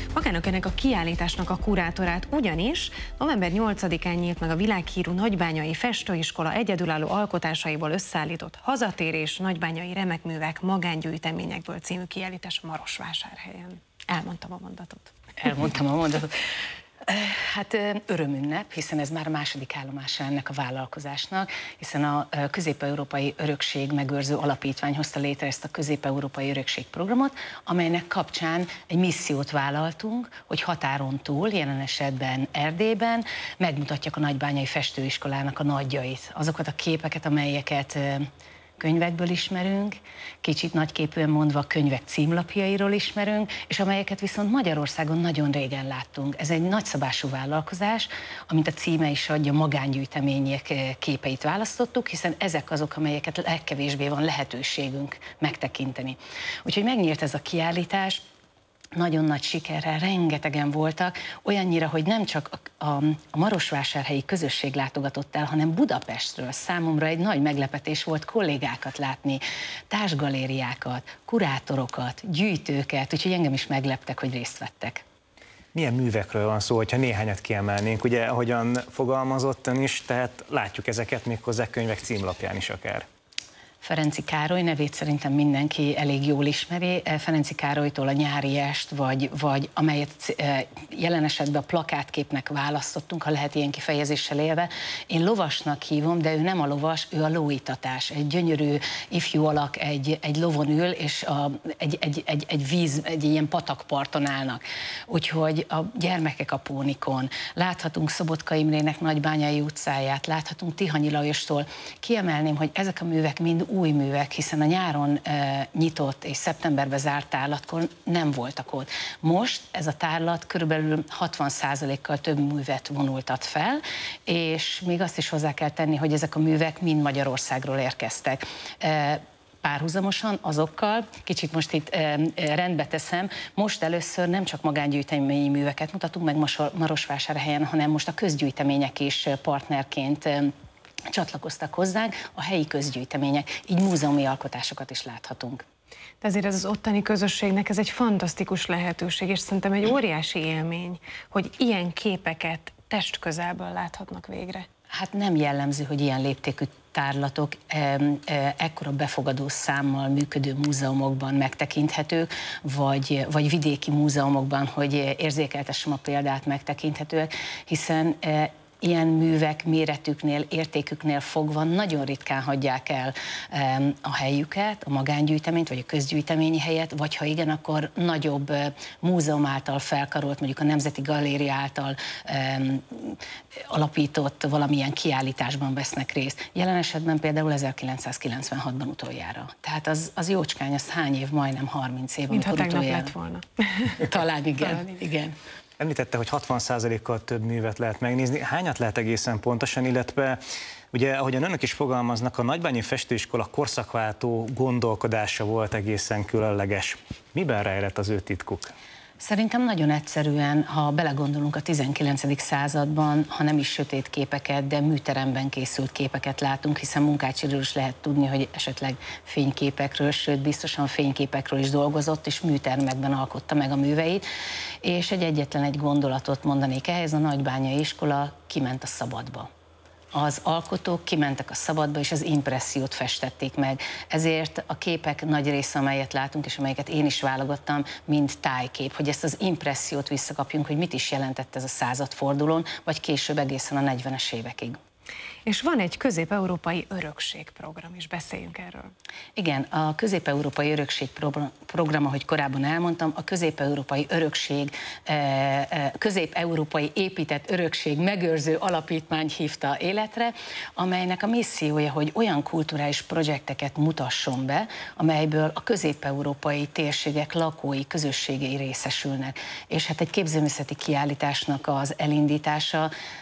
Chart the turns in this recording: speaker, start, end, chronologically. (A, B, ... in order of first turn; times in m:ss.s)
0:00.1-0:15.2 A
0:15.4-0:16.3 B
0:17.1-0:38.3 B
0:38.8-0:58.2 B
0:59.0-1:15.0 B
1:15.7-1:23.1 C
1:23.8-2:20.5 B
2:21.1-2:25.6 B
2:26.2-2:34.7 A
2:35.0-3:03.2 B
3:03.7-3:13.1 B
3:12.3-3:14.0 A
3:14.0-3:15.4 B
3:15.8-3:20.4 C
3:20.9-3:28.7 C
3:29.2-3:44.3 B
3:44.8-3:49.5 B
3:50.1-4:04.8 B
4:05.5-4:08.9 A
4:09.4-4:32.9 B